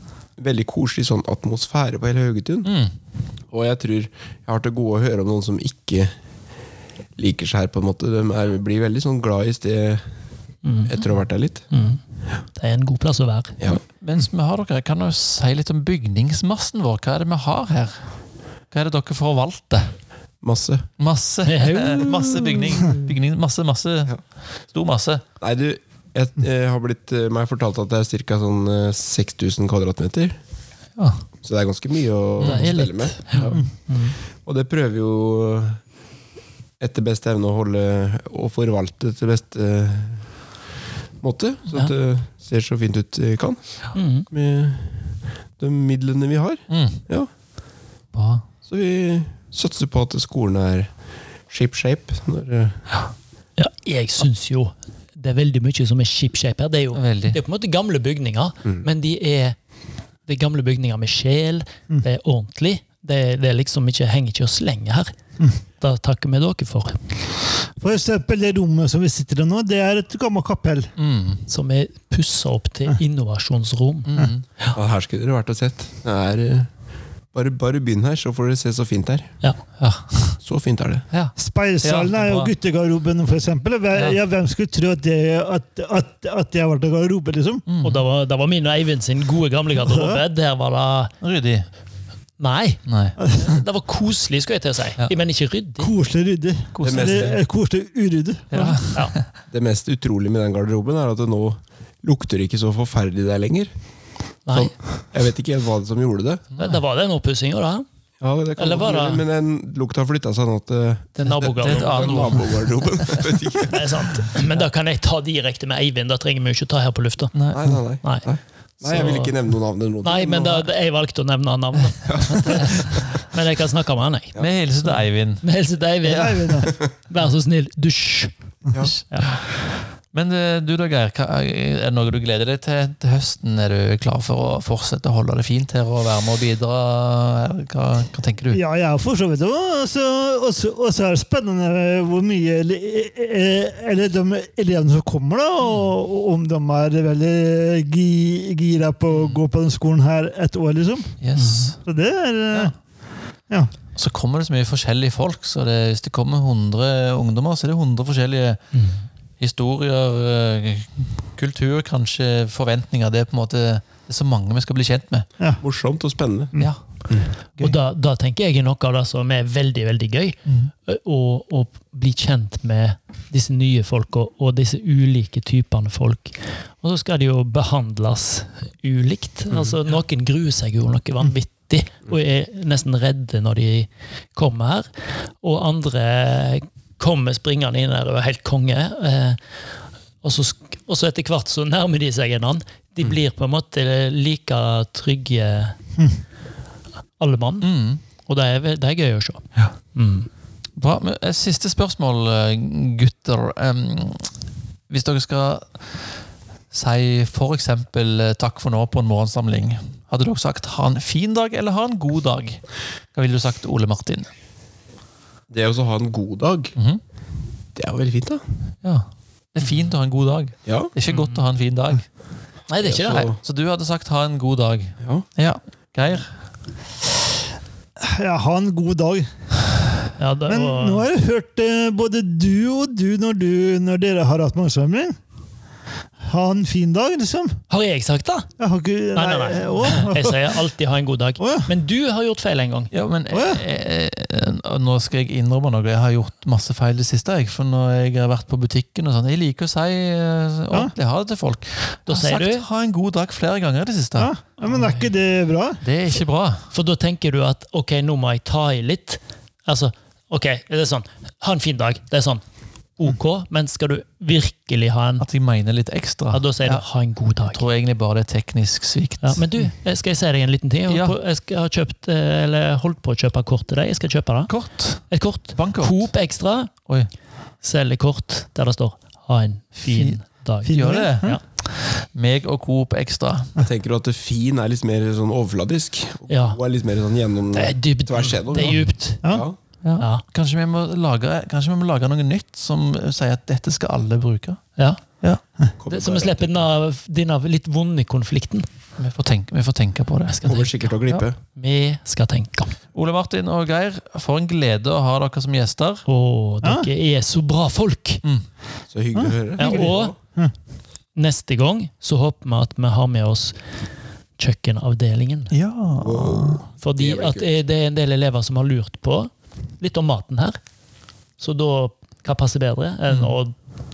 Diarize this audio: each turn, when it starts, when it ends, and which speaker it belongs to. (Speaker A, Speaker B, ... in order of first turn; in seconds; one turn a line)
Speaker A: 0.4-2.7
Speaker B: 2.6-2.9
Speaker A: 3.5-6.1
Speaker A: 7.2-10.0
Speaker C: 10.6-10.9
Speaker A: 10.8-11.7
Speaker C: 11.7-12.0
Speaker C: 12.5-13.6
Speaker B: 14.0-18.2
Speaker B: 18.7-19.9
Speaker A: 20.4-20.9
Speaker B: 21.0-25.2
Speaker C: 21.4-22.6
Speaker A: 25.4-30.3
Speaker B: 31.0-31.2
Speaker A: 31.4-33.6
Speaker B: 32.4-32.7
Speaker C: 32.4-34.2
Speaker A: 34.4-35.8
Speaker A: 36.8-40.3
Speaker A: 41.2-43.6
Speaker C: 43.9-44.3
Speaker A: 44.3-47.3
Speaker B: 46.7-47.0
Speaker B: 48.1-48.4
Speaker A: 48.6-50.9
Speaker A: 51.5-52.9
Speaker C: 53.6-59.5
Speaker B: 56.9-57.4
Speaker C: 60.2-65.1
Speaker C: 65.8-67.0
Speaker D: 67.8-70.9
Speaker B: 71.0-71.4
Speaker C: 71.5-74.7
Speaker B: 74.1-74.4
Speaker A: 74.7-76.7
Speaker A: 77.3-79.3
Speaker B: 79.8-80.4
Speaker A: 80.4-81.0
Speaker B: 81.1-82.5
Speaker D: 81.4-87.6
Speaker B: 87.7-88.0
Speaker C: 87.8-91.1
Speaker D: 89.8-90.2
Speaker B: 91.2-91.7
Speaker C: 92.4-95.9
Speaker B: 92.8-93.3
Speaker D: 93.2-93.5
Speaker D: 95.8-98.8
Speaker B: 96.7-97.4
Speaker A: 96.8-97.4
Speaker B: 98.5-99.2
Speaker C: 98.9-99.1
Speaker A: 99.5-103.7
Speaker C: 104.5-104.7
Speaker A: 104.5-106.4
Speaker C: 106.6-107.8
Speaker A: 108.2-114.0
Speaker C: 108.6-109.2
Speaker C: 111.2-112.5
Speaker B: 111.4-113.4
Speaker C: 113.7-117.3
Speaker B: 117.3-117.7
Speaker A: 117.5-120.7
Speaker C: 118.8-119.3
Speaker C: 120.0-124.3
Speaker A: 122.0-123.0
Speaker B: 124.3-125.4
Speaker C: 125.4-128.3
Speaker D: 126.0-126.7
Speaker B: 128.8-138.6
Speaker C: 129.1-129.4
Speaker D: 138.5-151.1
Speaker B: 145.6-145.9
Speaker B: 149.1-149.4
Speaker B: 151.2-151.8
Speaker C: 151.3-151.7
Speaker D: 151.8-152.8
Speaker B: 153.9-158.7
Speaker C: 158.7-159.0
Speaker B: 159.4-165.2
Speaker A: 165.6-166.5
Speaker C: 167.6-184.9
Speaker B: 170.4-170.7
Speaker C: 185.4-189.4
Speaker C: 190.2-195.8
Speaker C: 197.2-200.3
Speaker B: 197.6-198.0
Speaker B: 200.8-204.3
Speaker B: 204.9-206.1
Speaker B: 206.7-214.3
Speaker A: 215.5-216.7
Speaker A: 217.7-218.4
Speaker B: 218.8-222.1
Speaker A: 220.7-220.9
Speaker C: 221.1-221.4
Speaker C: 222.7-223.2
Speaker A: 222.8-223.4
Speaker B: 223.1-226.3
Speaker D: 228.0-229.3
Speaker C: 230.2-231.1
Speaker D: 230.5-235.2
Speaker D: 236.2-237.6
Speaker C: 237.7-238.5
Speaker D: 238.6-240.6
Speaker C: 239.1-242.9
Speaker D: 241.4-241.7
Speaker B: 242.9-254.3
Speaker D: 243.3-243.6
Speaker C: 252.1-252.6
Speaker D: 254.2-255.8
Speaker C: 254.6-255.1
Speaker B: 255.8-256.7
Speaker C: 256.7-262.4
Speaker C: 262.9-265.2
Speaker B: 265.2-266.8
Speaker C: 266.3-267.6
Speaker B: 267.5-269.6
Speaker C: 269.2-274.5
Speaker B: 270.9-271.1
Speaker B: 274.5-276.1
Speaker C: 275.1-276.8
Speaker C: 277.6-281.4
Speaker B: 279.8-283.5
Speaker D: 280.6-281.3
Speaker A: 283.6-289.6
Speaker C: 286.3-286.6
Speaker C: 287.5-289.2
Speaker B: 289.8-295.4
Speaker C: 290.0-290.2
Speaker C: 294.8-295.0
Speaker A: 295.8-296.6
Speaker C: 295.9-298.7
Speaker B: 299.0-300.4
Speaker C: 300.3-302.7
Speaker A: 300.4-301.4
Speaker B: 302.9-306.0
Speaker C: 306.1-308.2
Speaker A: 308.9-310.1
Speaker C: 309.6-310.1
Speaker C: 311.1-313.6
Speaker C: 314.4-315.5
Speaker B: 315.5-316.6
Speaker A: 315.9-317.5
Speaker C: 316.8-320.6
Speaker C: 321.4-323.5